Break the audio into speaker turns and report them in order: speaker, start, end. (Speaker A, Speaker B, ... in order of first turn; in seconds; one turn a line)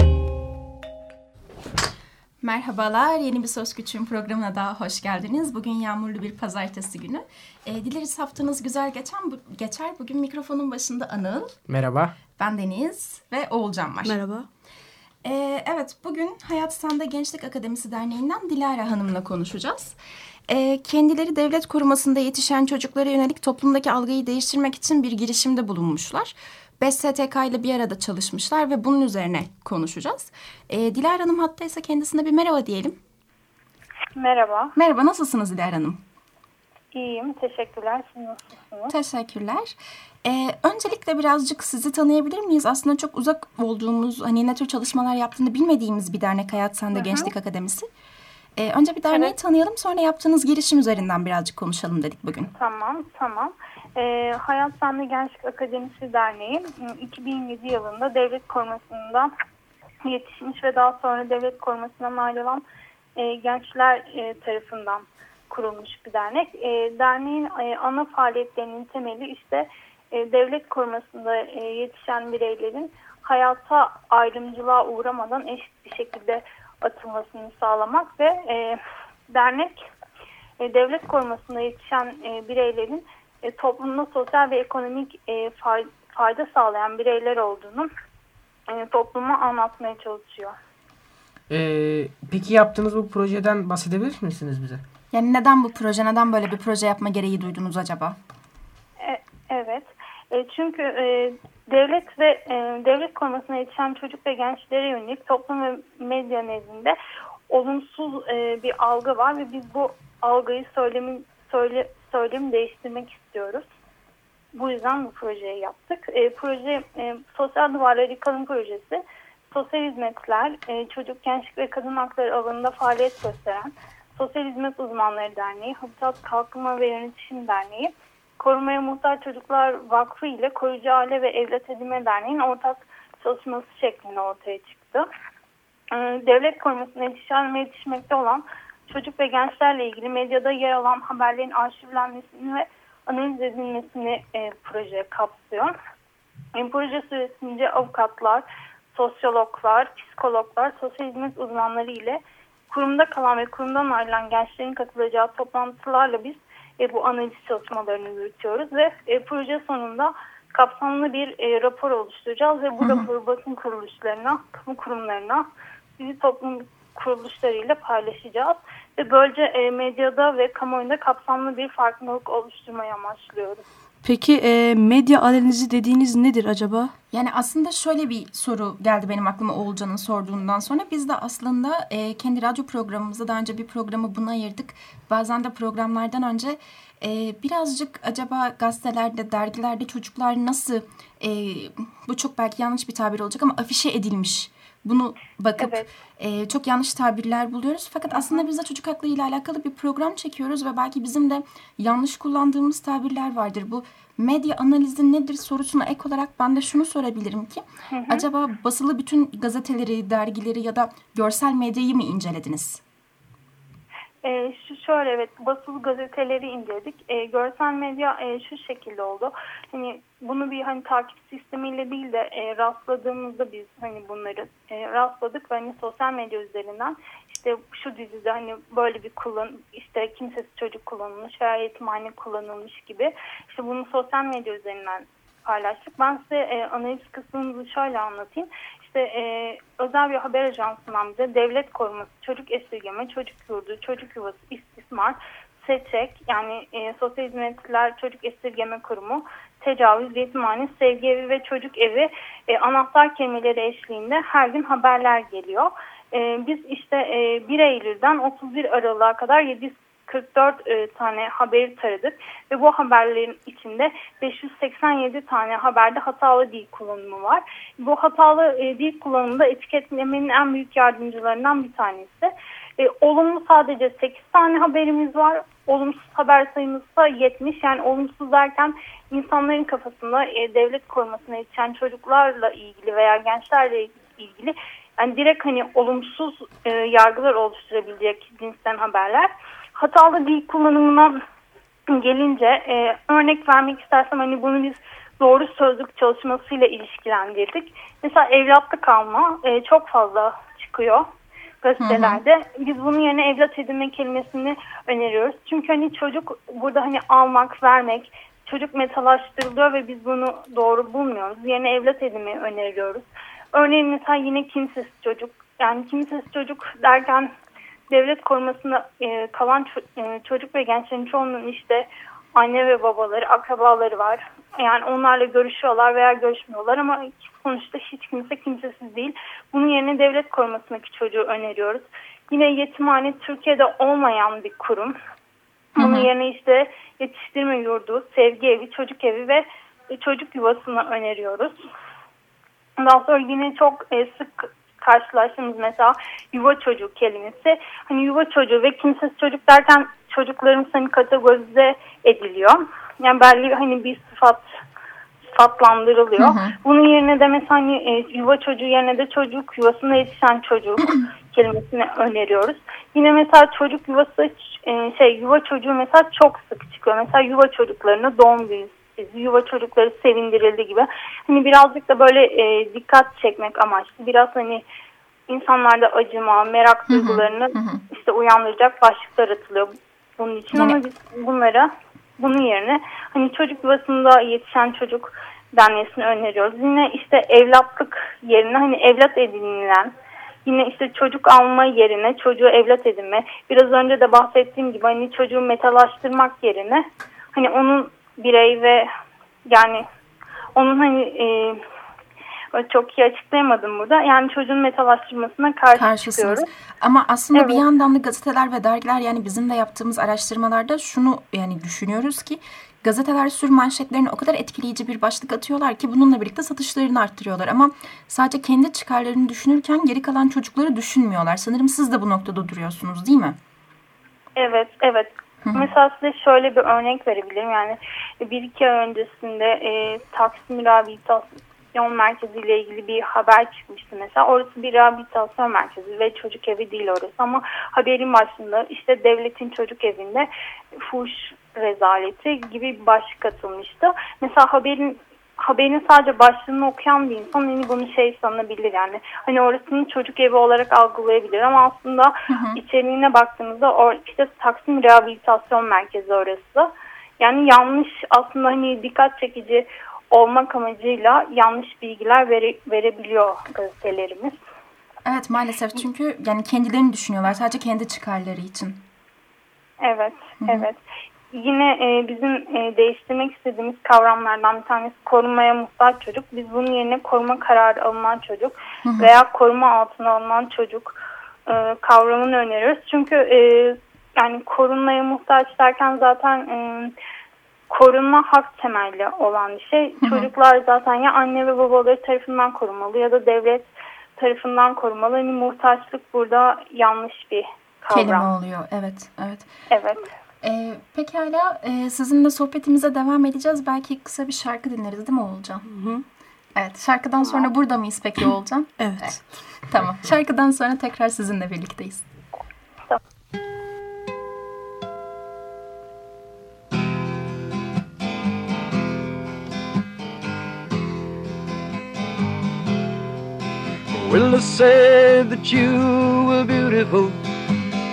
Speaker A: 2.4-11.6
Speaker B: 11.7-12.2
Speaker A: 12.4-14.2
Speaker C: 14.1-14.5
Speaker A: 15.2-33.0
Speaker D: 34.1-34.7
Speaker A: 34.8-36.0
Speaker D: 36.9-38.9
Speaker A: 38.9-47.9
Speaker D: 46.9-47.3
Speaker A: 48.6-52.5
Speaker D: 52.5-59.3
Speaker D: 60.0-62.6
Speaker D: 63.2-79.8
Speaker D: 80.6-87.9
Speaker D: 88.7-90.6
Speaker B: 91.5-94.8
Speaker A: 95.1-98.2
Speaker D: 99.0-107.0
Speaker D: 107.5-113.7
Speaker D: 114.5-135.1
Speaker D: 135.9-145.7
Speaker D: 146.6-165.5
Speaker A: 162.8-163.1
Speaker D: 166.0-173.6
Speaker C: 174.0-176.9
Speaker A: 177.1-212.8
Speaker D: 195.6-195.9
Speaker D: 198.1-198.4
Speaker D: 207.9-208.3
Speaker D: 214.2-291.2
Speaker D: 291.9-301.1
Speaker D: 301.6-317.3
Speaker A: 301.8-302.2
Speaker D: 317.9-335.0
Speaker D: 335.8-341.6
Speaker A: 335.8-336.1
Speaker D: 342.8-354.4
Speaker D: 355.3-374.6
Speaker A: 356.2-356.6
Speaker D: 375.3-389.9
Speaker A: 376.9-377.8
Speaker A: 380.5-380.8
Speaker D: 390.4-398.9
Speaker D: 399.5-399.9
Speaker D: 400.6-401.6
Speaker D: 402.5-406.5
Speaker A: 405.7-423.4
Speaker D: 407.4-407.6
Speaker D: 424.4-464.4
Speaker A: 452.3-452.6
Speaker A: 465.1-468.8
Speaker D: 469.8-470.8
Speaker A: 470.4-470.7
Speaker D: 471.3-486.9
Speaker A: 478.8-479.1
Speaker D: 487.7-498.3
Speaker A: 490.0-490.3
Speaker A: 497.9-499.5
Speaker D: 499.7-500.1
Speaker A: 500.4-505.6
Speaker C: 505.7-506.0
Speaker A: 506.6-512.0
Speaker C: 508.8-509.2
Speaker E: 523.9-527.2